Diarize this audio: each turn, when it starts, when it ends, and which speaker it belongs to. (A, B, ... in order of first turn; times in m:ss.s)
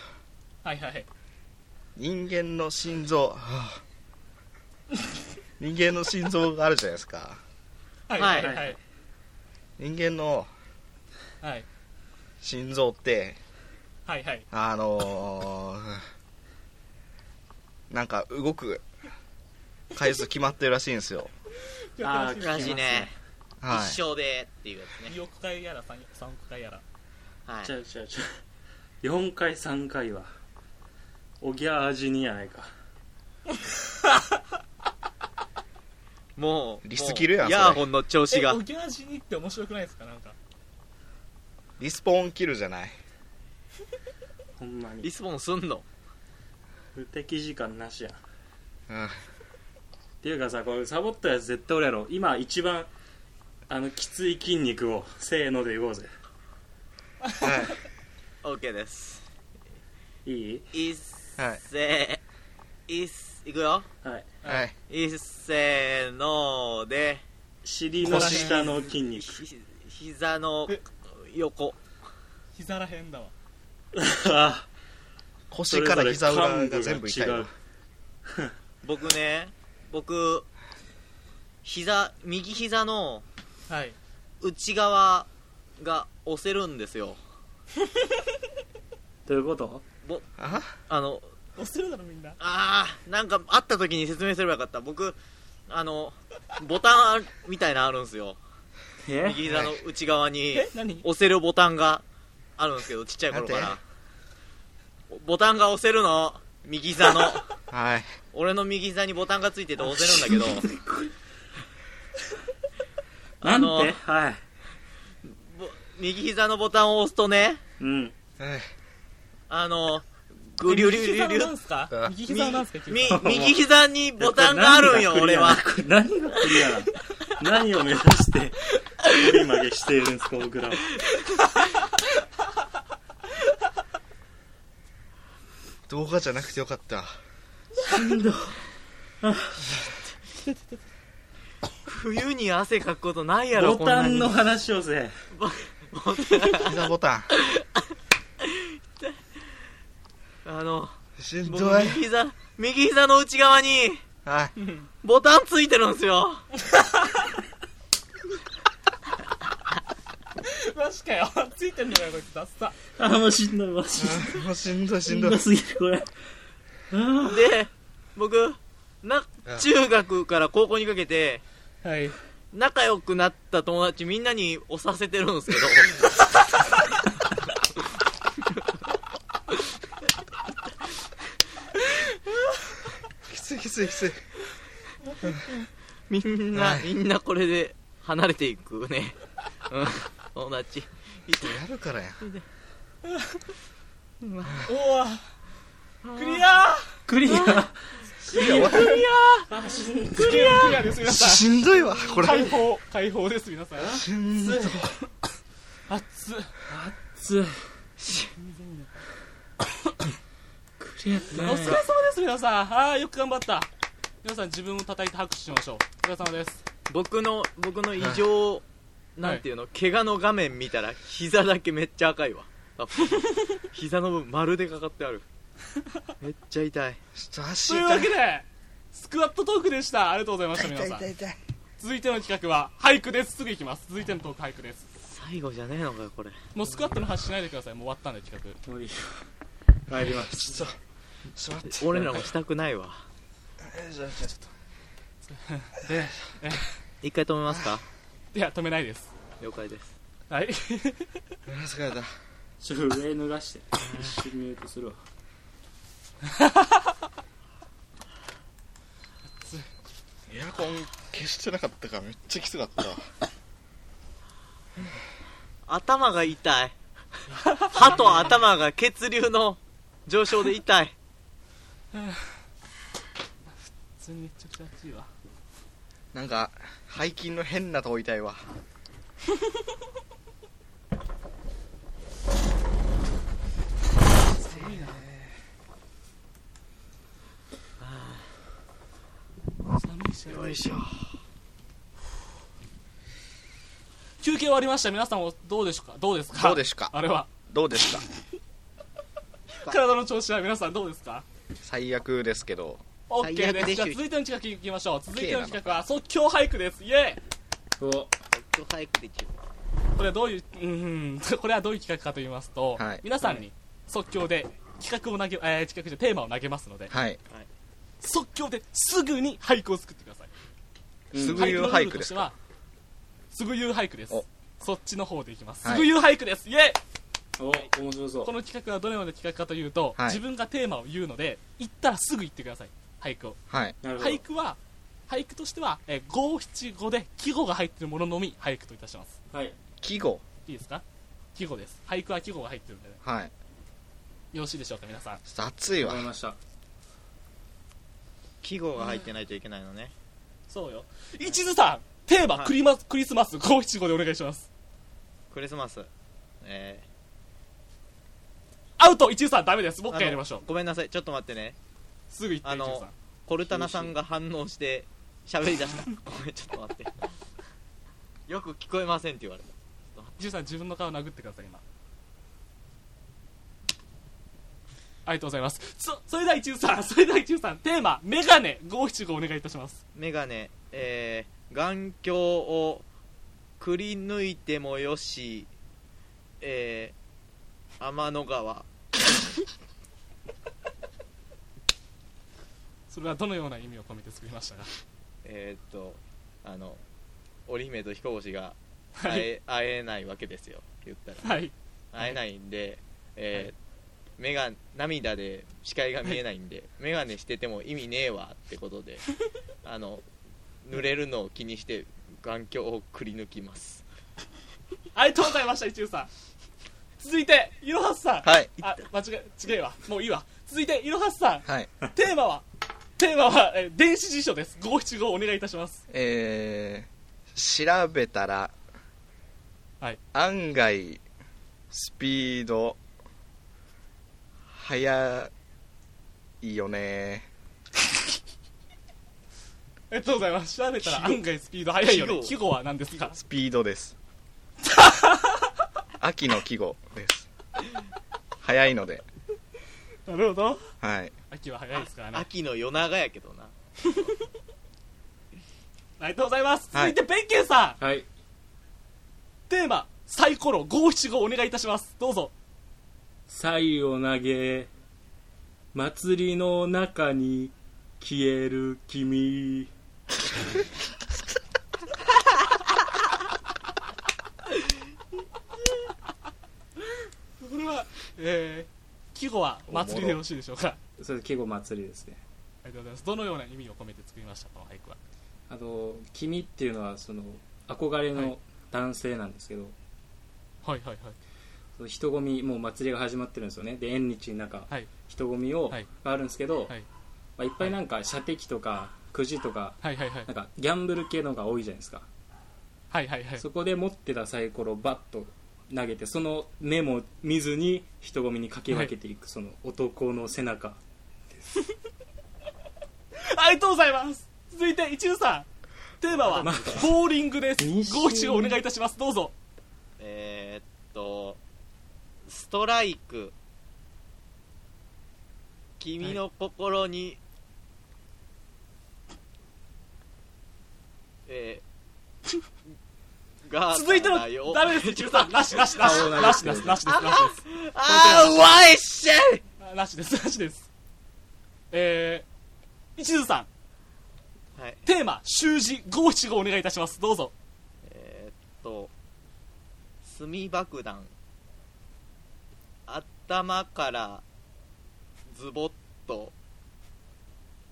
0:00.6-0:01.1 A
0:02.0-0:03.8 B
0:05.6-0:07.4 B
0:08.1-0:08.8 A
0:08.2-0:08.6 C
0:08.4-0:08.8 D
0:09.8-0:10.5 B
0:11.4-0:11.7 A
0:12.4-0:13.4 B
0:14.1-0:14.5 A
0:14.5-0:16.0 B
0:17.9-0:18.8 B
0:19.9-0:21.3 B
0:22.0-0:23.0 A
0:22.0-0:23.1 D
0:22.4-0:23.1 C
0:23.6-0:24.0 B
0:23.7-0:25.2 C
0:25.1-0:26.8 A
0:27.5-0:27.7 C
0:27.6-0:28.4 D
0:29.0-0:30.3 D
0:31.4-0:32.7 D
0:34.0-0:34.4 A
0:36.4-0:38.6 C
0:36.8-0:37.9 B
0:38.3-0:40.4 A
0:41.8-0:43.0 B
0:44.6-0:45.1 D
0:45.0-0:45.9 C
0:47.0-0:48.2 D
0:48.9-0:49.2 B
0:50.2-0:52.9 D
0:53.7-0:56.1 D
0:57.4-0:57.8 B
0:58.4-0:59.3 C
1:00.2-1:00.7 D
1:00.7-1:02.2 C
1:02.9-1:03.9 C
1:04.0-1:04.3 D
1:04.4-1:04.7 B
1:04.9-1:07.2 C
1:07.6-1:09.4 D
1:08.0-1:08.8 A
1:08.0-1:08.5 B
1:08.2-1:08.5 C
1:09.1-1:11.8 C
1:12.6-1:13.3 A
1:13.9-1:14.7 D
1:15.5-1:17.5 B
1:15.7-1:17.5 D
1:18.8-1:20.5 C
1:21.6-1:23.2 C
1:23.7-1:24.0 A
1:24.4-1:25.3 C
1:25.8-1:27.2 C
1:29.3-1:29.8 D
1:30.0-1:31.3 C
1:30.4-1:30.7 B
1:31.6-1:32.4 A
1:32.4-1:35.2 C
1:35.7-1:38.4 C
1:39.1-1:39.4 D
1:39.2-1:42.0 C
1:39.5-1:39.8 B
1:40.5-1:41.1 A
1:42.6-1:43.8 C
1:43.3-1:43.8 B
1:45.1-1:47.5 C
1:47.7-1:48.1 B
1:48.3-1:50.7 C
1:50.1-1:51.1 D
1:53.4-1:54.0 C
1:53.4-1:54.4 D
1:55.2-1:57.6 C
1:57.8-1:58.1 D
1:58.4-1:58.7 B
1:59.5-2:01.5 C
2:00.6-2:03.3 A
2:02.3-2:05.6 C
2:03.1-2:03.7 D
2:04.2-2:10.9 D
2:15.9-2:17.2 B
2:17.8-2:18.6 D
2:19.2-2:19.6 D
2:21.9-2:24.4 C
2:23.6-2:25.1 D
2:25.3-2:27.7 C
2:26.6-2:27.3 B
2:28.4-2:29.2 C
2:30.4-2:34.0 C
2:31.2-2:32.0 B
2:34.2-2:34.5 B
2:34.6-2:34.9 A
2:35.0-2:36.5 C
2:36.7-2:37.4 A
2:40.4-2:42.8 A
2:43.0-2:44.4 D
2:44.0-2:45.4 B
2:45.1-2:46.1 D
2:46.9-2:47.5 D
2:47.3-2:51.4 C
2:51.8-2:52.2 A
2:52.5-2:56.1 C
3:03.3-3:04.2 B
3:06.1-3:09.2 C
3:06.5-3:06.9 B
3:09.7-3:11.6 C
3:11.3-3:12.2 B
3:13.1-3:13.4 A
3:14.2-3:14.7 C
3:14.7-3:15.3 A
3:16.0-3:16.4 C
3:16.1-3:17.0 A
3:17.1-3:20.8 D
3:17.3-3:17.6 C
3:18.3-3:19.0 A
3:18.3-3:19.5 C
3:20.1-3:21.5 A
3:21.0-3:22.5 B
3:22.0-3:22.5 D
3:22.2-3:24.0 A
3:23.8-3:24.9 D
3:23.9-3:25.0 B
3:25.9-3:26.6 A
3:26.7-3:27.6 D
3:28.4-3:28.9 A
3:30.8-3:31.8 D
3:31.3-3:33.7 A
3:31.4-3:31.8 B
3:34.2-3:36.6 A
3:36.9-3:38.6 C
3:39.2-3:45.3 C
3:46.2-3:47.0 C
3:47.2-3:48.2 B
3:47.6-3:51.1 A
3:50.6-3:51.4 B
3:51.8-3:54.9 A
3:55.0-3:56.5 C
3:56.5-3:58.6 A
3:58.6-3:59.3 D
3:59.9-4:00.7 D
4:00.4-4:00.7 B
4:01.4-4:02.1 B
4:01.6-4:03.1 C
4:03.6-4:04.5 B
4:05.3-4:06.8 A
4:07.0-4:07.8 C
4:08.3-4:09.1 A
4:09.4-4:09.9 C
4:10.3-4:11.2 A
4:11.5-4:12.1 B
4:12.6-4:15.0 D
4:13.8-4:14.1 C
4:16.3-4:16.8 A
4:19.4-4:19.7 A
4:20.3-4:23.1 B
4:25.7-4:30.9 C
4:27.4-4:28.3 A
4:31.9-4:32.4 A
4:34.0-4:35.1 A
4:36.1-4:38.5 B
4:44.3-4:45.1 A
4:47.8-4:48.3 C
4:49.7-4:50.8 A
4:50.3-4:51.2 C
4:54.2-4:57.3 A
4:56.3-4:57.0 B
4:57.5-4:58.0 B
4:59.6-5:01.2 A
5:01.6-5:02.8 B
5:03.1-5:07.2 A
5:03.2-5:04.0 C
5:05.2-5:05.8 B
5:07.8-5:08.1 D
5:08.3-5:09.3 C
5:10.0-5:16.9 A
5:12.8-5:13.0 B
5:16.9-5:17.2 B
5:18.0-5:20.3 A
5:21.1-5:21.8 D
5:21.2-5:22.3 B
5:21.3-5:22.4 A
5:23.3-5:26.8 A
5:25.6-5:25.9 B
5:27.4-5:28.3 D
5:28.2-5:33.4 A
5:33.5-5:33.8 B
5:33.8-5:34.2 D
5:34.0-5:39.2 A
5:39.3-5:39.6 D
5:39.8-5:40.2 B
5:40.5-5:40.8 A
5:41.4-5:43.0 A
5:43.0-5:43.3 B
5:44.3-5:45.2 A
5:45.3-5:46.1 B
5:45.8-5:46.4 D
5:48.4-5:49.9 C
5:50.5-5:54.5 A
5:55.3-5:55.9 C
5:56.4-5:56.9 C
5:58.8-6:00.4 A
5:59.9-6:01.6 C
6:02.1-6:02.9 A
6:02.4-6:07.0 C
6:03.5-6:03.9 D
6:08.3-6:10.1 C
6:10.2-6:11.6 A
6:15.0-6:19.8 A
6:20.0-6:22.9 C
6:23.6-6:25.5 C
6:26.4-6:27.0 C
6:27.8-6:28.7 C
6:32.9-6:34.7 A
6:35.2-6:36.8 C
6:37.5-6:41.3 C
6:39.0-6:39.3 A
6:41.2-6:42.1 A
6:41.9-6:43.6 C
6:44.2-6:49.0 C
6:49.6-6:50.0 C
6:50.6-6:53.8 C
6:54.9-6:56.1 A
6:57.0-7:02.4 A
6:58.2-6:58.5 B
7:03.0-7:05.8 A
7:05.9-7:08.5 B
7:10.1-7:11.0 B
7:11.7-7:12.8 B
7:14.5-7:15.3 B
7:16.4-7:17.3 B
7:19.9-7:23.2 A
7:20.8-7:21.2 C
7:21.8-7:22.4 C
7:23.1-7:24.0 B
7:24.7-7:25.5 A
7:26.0-7:27.3 B
7:28.4-7:29.0 B
7:30.1-7:30.6 A
7:30.8-7:31.1 B
7:31.3-7:32.3 A
7:31.8-7:33.5 C
7:33.8-7:34.1 A
7:36.0-7:37.8 A
7:37.8-7:38.1 D
7:39.5-7:42.3 A
7:43.3-7:44.7 D
7:45.7-7:49.7 D
7:57.4-8:00.8 A
7:59.7-8:00.2 B
8:01.0-8:02.2 D
8:02.6-8:05.0 A
8:05.5-8:09.8 D
8:10.6-8:11.2 A
8:11.8-8:16.7 D
8:17.4-8:22.1 D
8:19.8-8:20.3 A
8:22.9-8:23.4 A
8:23.4-8:30.8 D
8:33.2-8:35.5 A
8:36.0-8:39.3 A
8:36.1-8:36.9 C
8:36.4-8:36.9 D
8:37.6-8:38.6 D
8:40.0-8:41.4 C
8:42.3-8:43.3 C
8:45.8-8:47.2 C
8:51.3-8:51.6 C
8:53.4-8:59.4 C
8:53.7-8:58.4 A
8:55.8-8:56.8 D
8:59.6-9:00.7 A
9:01.7-9:02.3 A
9:03.0-9:03.5 A
9:04.6-9:04.8 C
9:04.9-9:07.3 A
9:07.9-9:08.9 C
9:10.0-9:11.1 C
9:12.9-9:14.2 C
9:15.3-9:16.3 C